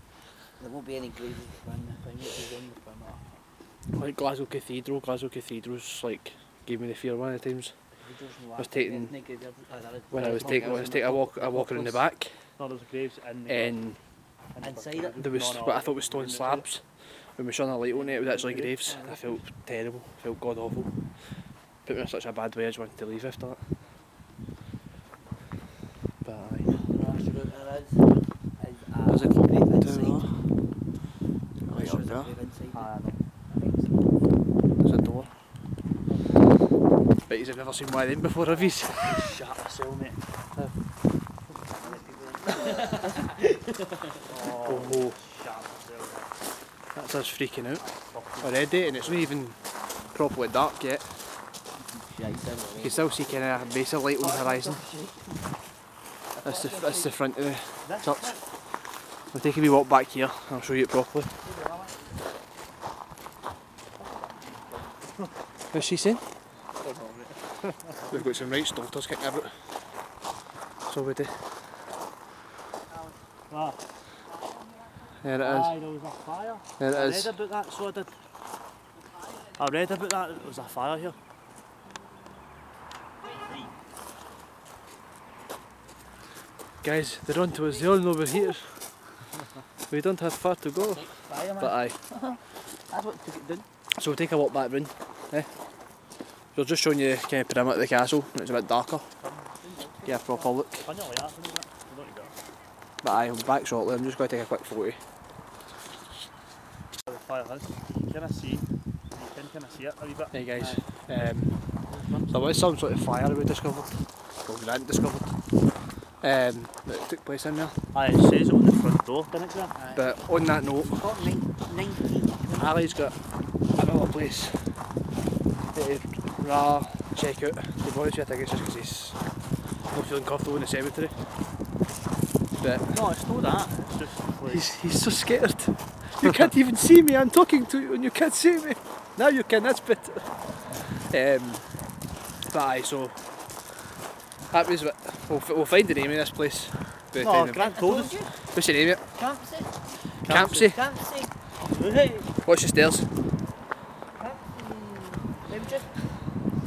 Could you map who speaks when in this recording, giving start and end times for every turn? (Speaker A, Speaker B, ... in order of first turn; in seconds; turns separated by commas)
Speaker A: 0.6-3.4, Speaker B: 3.9-7.7, Speaker A: 8.0-12.0, Speaker B: 8.6-9.1, Speaker B: 10.1-12.4, Speaker C: 12.6-13.8, Speaker B: 13.4-14.0, Speaker C: 14.5-16.7, Speaker A: 14.6-15.2, Speaker B: 15.1-23.8, Speaker A: 17.9-19.4, Speaker B: 26.2-26.8, Speaker A: 26.7-30.4, Speaker B: 29.1-30.5, Speaker B: 31.6-32.3, Speaker A: 31.7-34.2, Speaker C: 32.7-33.3, Speaker B: 34.8-35.3, Speaker B: 37.3-39.1, Speaker C: 38.4-40.2, Speaker B: 40.5-40.8, Speaker C: 41.7-42.5, Speaker A: 41.8-43.8, Speaker C: 44.2-46.4, Speaker B: 44.6-45.2, Speaker B: 46.9-47.8, Speaker C: 47.8-49.3, Speaker B: 48.4-51.4, Speaker A: 51.9-53.5, Speaker B: 52.8-54.8, Speaker A: 54.2-55.6, Speaker A: 56.3-57.1, Speaker B: 56.4-61.4, Speaker C: 57.8-58.4, Speaker A: 61.4-62.2, Speaker A: 64.0-65.0, Speaker B: 65.7-66.3, Speaker C: 66.8-67.9, Speaker B: 68.1-69.8, Speaker B: 70.8-71.7, Speaker C: 73.5-73.8, Speaker A: 74.4-74.9, Speaker B: 75.2-75.8, Speaker C: 75.4-78.1, Speaker B: 76.8-77.4, Speaker C: 79.5-81.2, Speaker B: 86.8-89.0, Speaker B: 89.9-92.0, Speaker A: 90.8-91.1, Speaker C: 91.3-91.8, Speaker A: 92.0-93.7, Speaker B: 93.9-95.6, Speaker B: 96.5-99.1, Speaker C: 99.2-99.5, Speaker A: 99.6-100.5, Speaker B: 100.0-100.9, Speaker C: 100.8-102.3, Speaker B: 103.0-105.0, Speaker C: 107.0-110.3, Speaker B: 110.3-117.8, Speaker A: 110.5-110.9, Speaker A: 111.9-112.5, Speaker C: 117.9-119.7, Speaker A: 119.7-120.1, Speaker B: 119.9-121.0, Speaker A: 120.8-122.9, Speaker B: 122.5-124.9, Speaker B: 125.7-131.4, Speaker B: 132.6-133.0, Speaker C: 132.9-134.7, Speaker B: 134.5-143.7, Speaker B: 144.5-147.8, Speaker C: 147.2-148.3, Speaker A: 147.6-148.3, Speaker B: 148.4-149.1, Speaker A: 149.1-150.1, Speaker C: 150.2-150.7, Speaker B: 150.2-150.8, Speaker A: 150.7-152.0, Speaker C: 151.7-152.3, Speaker B: 152.4-153.1, Speaker A: 154.2-156.0